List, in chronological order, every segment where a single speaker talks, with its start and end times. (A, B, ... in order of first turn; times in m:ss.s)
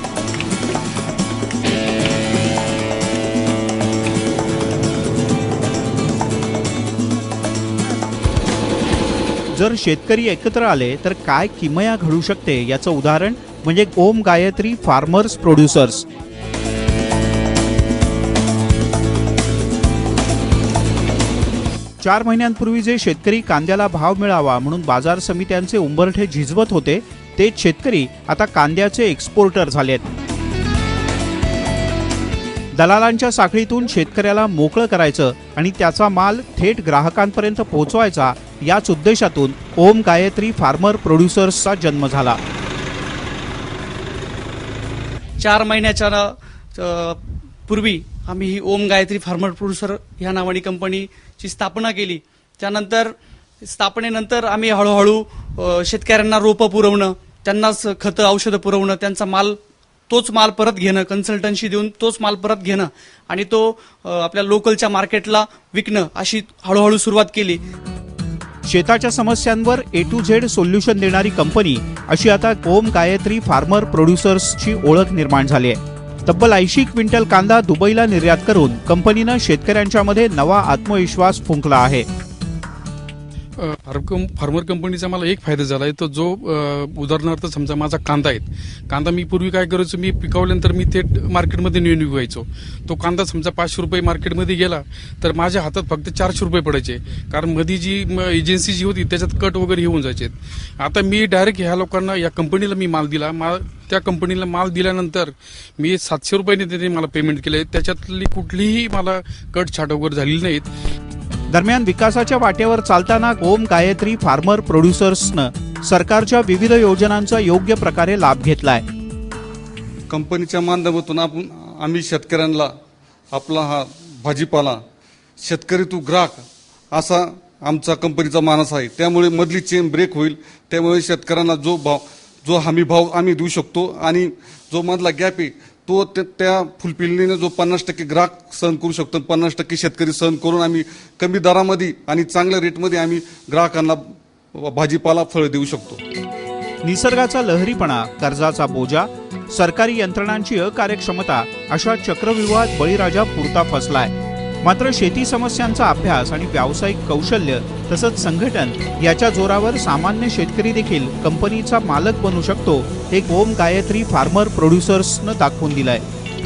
0:09.5-0:16.1 A
0:22.0-0:30.1 A
0:32.7-0:42.4 A
0:45.4-0:59.6 B
1:00.1-1:07.6 B
1:08.7-1:22.1 A
1:23.6-1:50.7 C
1:51.5-1:58.9 A
2:00.1-2:02.7 D
2:03.3-2:04.8 D
2:05.4-2:26.0 D
2:26.8-2:46.0 A